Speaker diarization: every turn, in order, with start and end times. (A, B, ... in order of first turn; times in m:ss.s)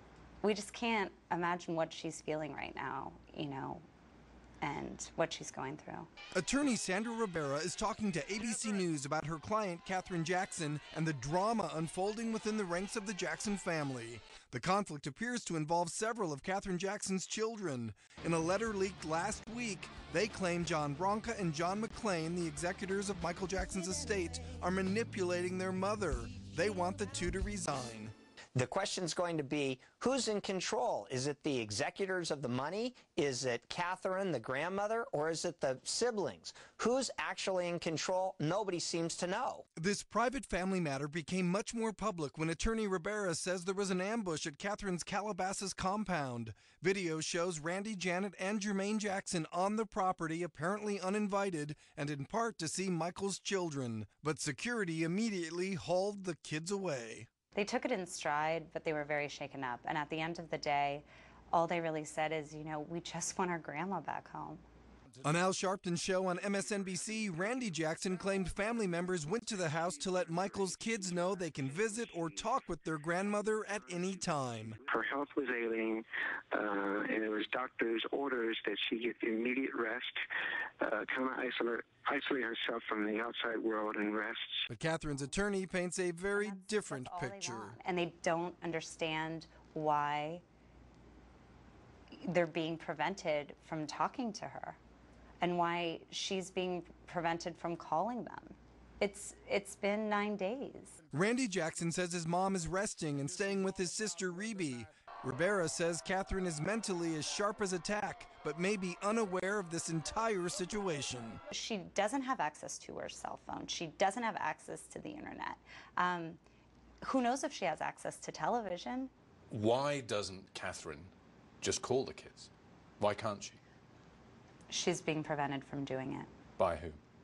0:00.4-0:03.8 A
0:04.6-0:06.1 A
0:06.3-0:28.1 B
0:28.5-0:39.6 C
0:39.8-0:57.3 B
0:57.5-1:04.6 A
1:05.2-1:14.8 B
1:09.9-1:12.4 D
1:14.1-1:20.2 D
1:20.8-1:24.7 D
1:24.7-1:27.8 B
1:26.3-1:30.4 A
1:32.1-1:34.8 A
1:35.4-1:41.0 A
1:41.1-1:51.4 B
1:51.5-1:56.4 A
1:57.0-1:59.1 A
1:59.5-2:03.6 E
2:04.7-2:06.3 A
2:06.6-2:07.0 E